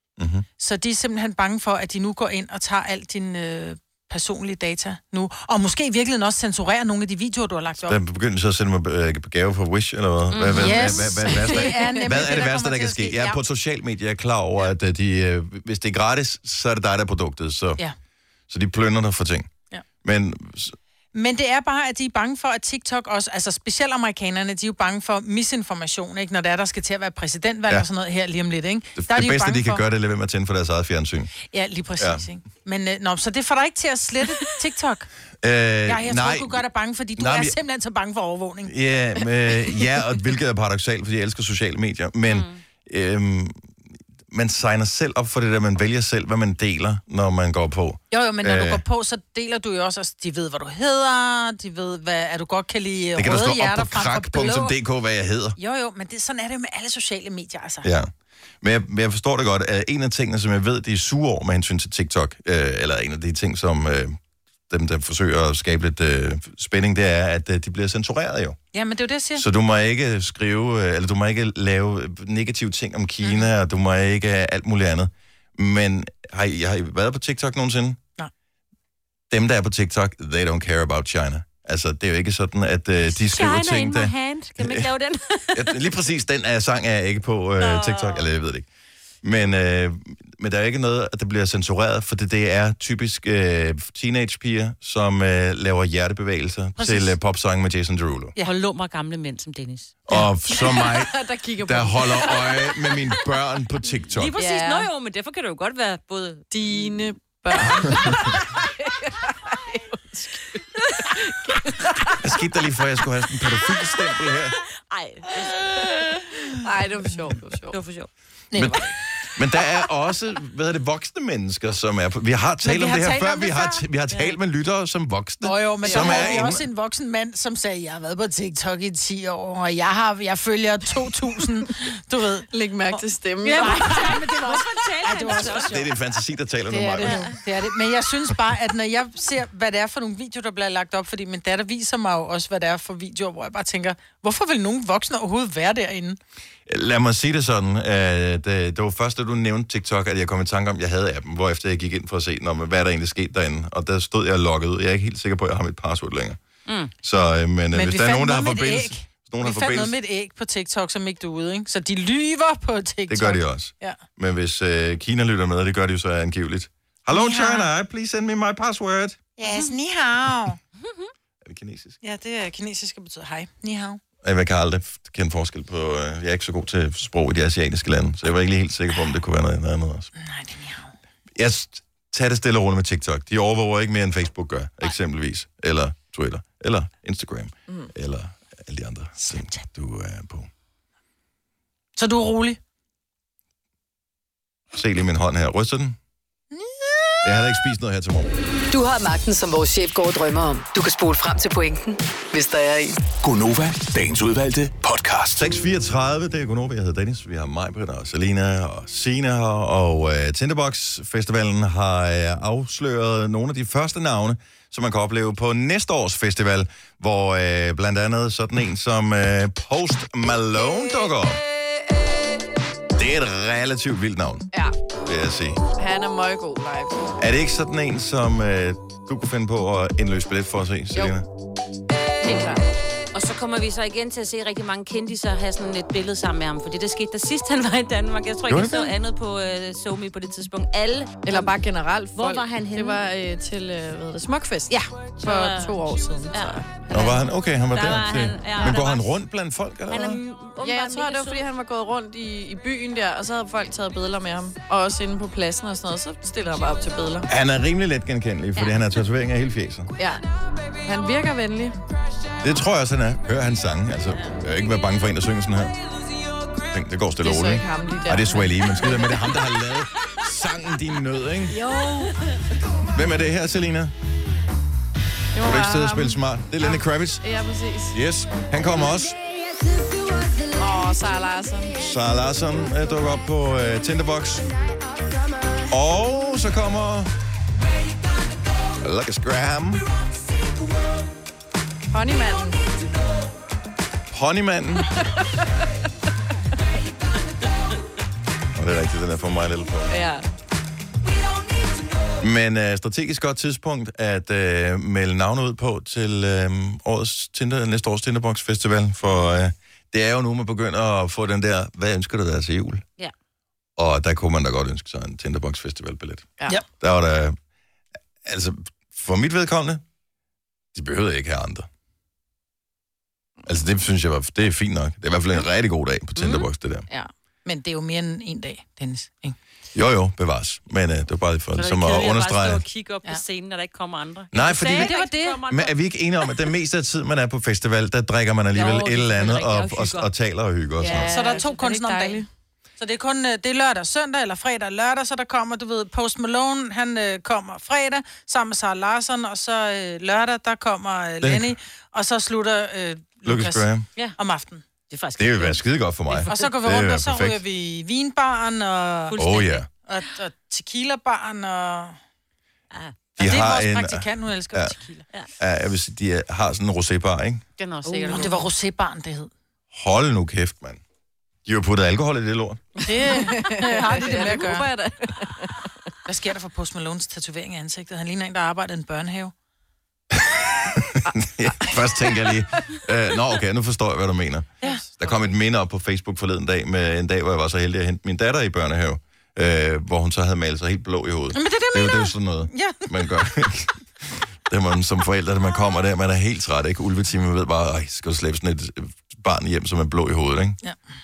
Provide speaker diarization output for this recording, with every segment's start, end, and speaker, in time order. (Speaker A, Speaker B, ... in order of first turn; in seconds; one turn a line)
Speaker A: 0.2-0.5
Speaker B: 0.6-8.0
Speaker A: 7.8-17.8
Speaker C: 10.3-11.1
Speaker B: 10.6-13.4
Speaker A: 18.5-19.5
Speaker A: 20.0-20.7
Speaker B: 21.1-29.8
Speaker A: 29.0-31.3
Speaker B: 31.4-35.1
Speaker A: 32.0-32.2
Speaker A: 35.4-36.6
Speaker B: 35.9-39.6
Speaker A: 37.2-37.5
Speaker A: 38.6-43.7
Speaker C: 42.2-42.6
Speaker A: 44.3-48.8
Speaker B: 48.1-54.8
Speaker A: 53.1-55.6
Speaker B: 55.6-57.9
Speaker A: 57.8-58.1
Speaker A: 58.6-64.2
Speaker A: 64.7-68.6
Speaker B: 68.7-69.5
Speaker A: 69.3-78.0
Speaker B: 73.2-73.5
Speaker A: 79.3-84.9
Speaker C: 83.1-85.9
Speaker A: 85.5-88.7
Speaker C: 87.6-88.3
Speaker A: 89.2-98.3
Speaker B: 96.8-97.1
Speaker C: 98.4-100.0
Speaker A: 100.1-104.3
Speaker D: 100.5-103.1
Speaker C: 104.1-106.9
Speaker D: 104.4-104.9
Speaker D: 106.5-112.2
Speaker A: 107.6-108.2
Speaker A: 112.2-114.6
Speaker C: 114.6-115.9
Speaker D: 116.6-117.8
Speaker C: 117.7-118.1
Speaker B: 118.5-118.8
Speaker A: 118.5-126.6
Speaker B: 122.6-123.8
Speaker C: 124.1-124.4
Speaker B: 125.4-135.7
Speaker C: 125.9-126.2
Speaker D: 132.5-134.1
Speaker C: 133.4-136.0
Speaker A: 135.3-137.3
Speaker B: 136.7-146.2
Speaker C: 137.0-137.3
Speaker A: 146.7-156.4
Speaker C: 156.7-156.9
Speaker A: 157.0-159.9
Speaker B: 157.7-164.0
Speaker A: 163.1-169.2
Speaker B: 167.1-167.7
Speaker B: 169.4-170.6
Speaker C: 170.8-171.1
Speaker A: 171.4-172.0
Speaker B: 172.0-174.0
Speaker A: 174.2-180.1
Speaker B: 180.2-180.9
Speaker A: 181.3-190.5
Speaker B: 189.2-189.6
Speaker B: 191.9-192.6
Speaker A: 194.7-196.0
Speaker B: 196.5-197.6
Speaker A: 197.2-198.3
Speaker E: 198.7-203.0
Speaker F: 203.2-205.4
Speaker A: 205.3-221.4
Speaker A: 222.9-224.5
Speaker A: 225.1-225.6
Speaker D: 225.8-227.1
Speaker A: 227.2-231.3
Speaker D: 232.2-232.6
Speaker C: 233.1-241.6
Speaker A: 238.5-238.9
Speaker D: 241.2-246.7
Speaker C: 242.1-243.0
Speaker C: 245.2-245.8
Speaker C: 246.3-249.0
Speaker A: 246.9-250.2
Speaker C: 249.9-251.4
Speaker D: 250.6-257.3
Speaker A: 257.3-259.9
Speaker D: 260.8-261.8
Speaker A: 262.4-265.8
Speaker A: 266.7-271.6
Speaker D: 267.2-269.1
Speaker D: 271.5-272.1
Speaker A: 272.9-273.9
Speaker D: 275.3-277.9
Speaker A: 275.4-277.2
Speaker A: 277.9-279.2
Speaker D: 280.5-281.8
Speaker A: 281.8-284.5
Speaker A: 285.7-287.1
Speaker A: 288.8-289.8
Speaker D: 291.9-292.6
Speaker A: 294.1-294.9
Speaker D: 294.9-295.5
Speaker A: 298.5-300.0
Speaker D: 299.9-300.3
Speaker A: 302.2-312.8
Speaker A: 313.8-317.4
Speaker A: 318.2-319.8
Speaker A: 320.7-321.7
Speaker A: 323.4-326.9
Speaker C: 326.2-326.4
Speaker B: 327.4-329.4
Speaker A: 329.7-332.6
Speaker C: 331.6-335.7
Speaker A: 334.3-341.1
Speaker B: 334.7-335.4
Speaker C: 338.5-340.1
Speaker D: 340.8-342.3
Speaker B: 341.1-342.2
Speaker B: 342.8-354.6
Speaker A: 351.2-351.5
Speaker A: 353.2-353.9
Speaker C: 354.9-356.4
Speaker A: 355.2-357.4
Speaker B: 356.3-359.2
Speaker C: 359.1-359.6
Speaker A: 359.2-359.7
Speaker B: 359.9-362.0
Speaker A: 363.1-364.7
Speaker B: 363.2-365.1
Speaker A: 365.4-367.4
Speaker C: 367.6-368.4
Speaker D: 367.8-368.4
Speaker B: 368.1-369.3
Speaker A: 369.7-370.8
Speaker A: 371.4-372.8
Speaker D: 372.8-375.7
Speaker B: 372.9-374.7
Speaker B: 376.1-379.3
Speaker A: 380.1-400.6
Speaker D: 381.1-382.8
Speaker D: 384.6-385.2
Speaker B: 391.3-392.9